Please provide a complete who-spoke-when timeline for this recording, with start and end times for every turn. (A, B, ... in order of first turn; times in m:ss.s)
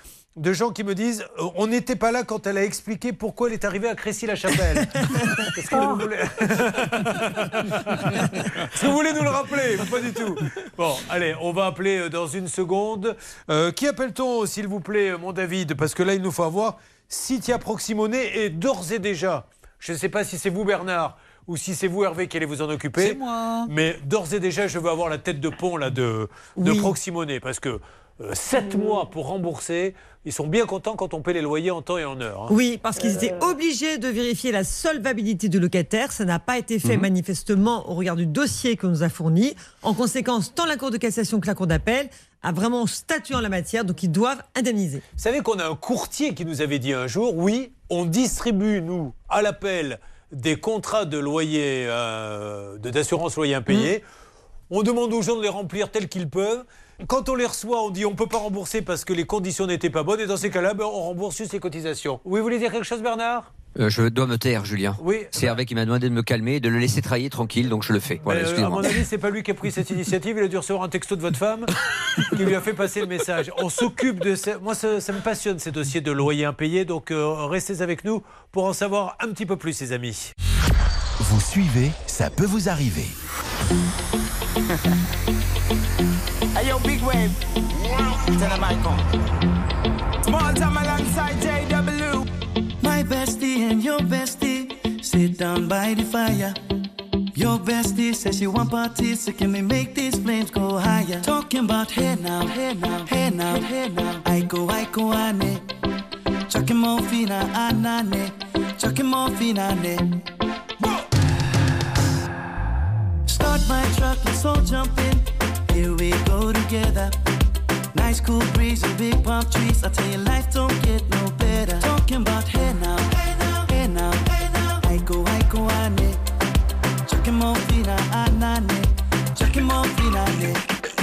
0:00.4-0:32.5 A
0:26.6-0:26.9 B
0:32.5-0:45.0 B
0:45.2-0:54.0 A
0:54.7-1:03.5 A
1:03.8-1:08.9 C
1:05.0-1:05.6 A
1:08.2-1:11.7 A
1:12.3-1:20.3 A
1:21.2-1:23.2 D
1:26.5-1:29.1 E
1:30.2-1:32.2 E
1:33.0-1:36.5 F
1:37.4-1:45.6 F
1:46.5-1:48.3 F
1:48.8-1:50.0 F
1:53.3-1:55.2 F
1:55.8-1:56.3 F
1:58.2-1:58.6 F
2:01.4-2:06.2 F
2:07.1-2:10.6 F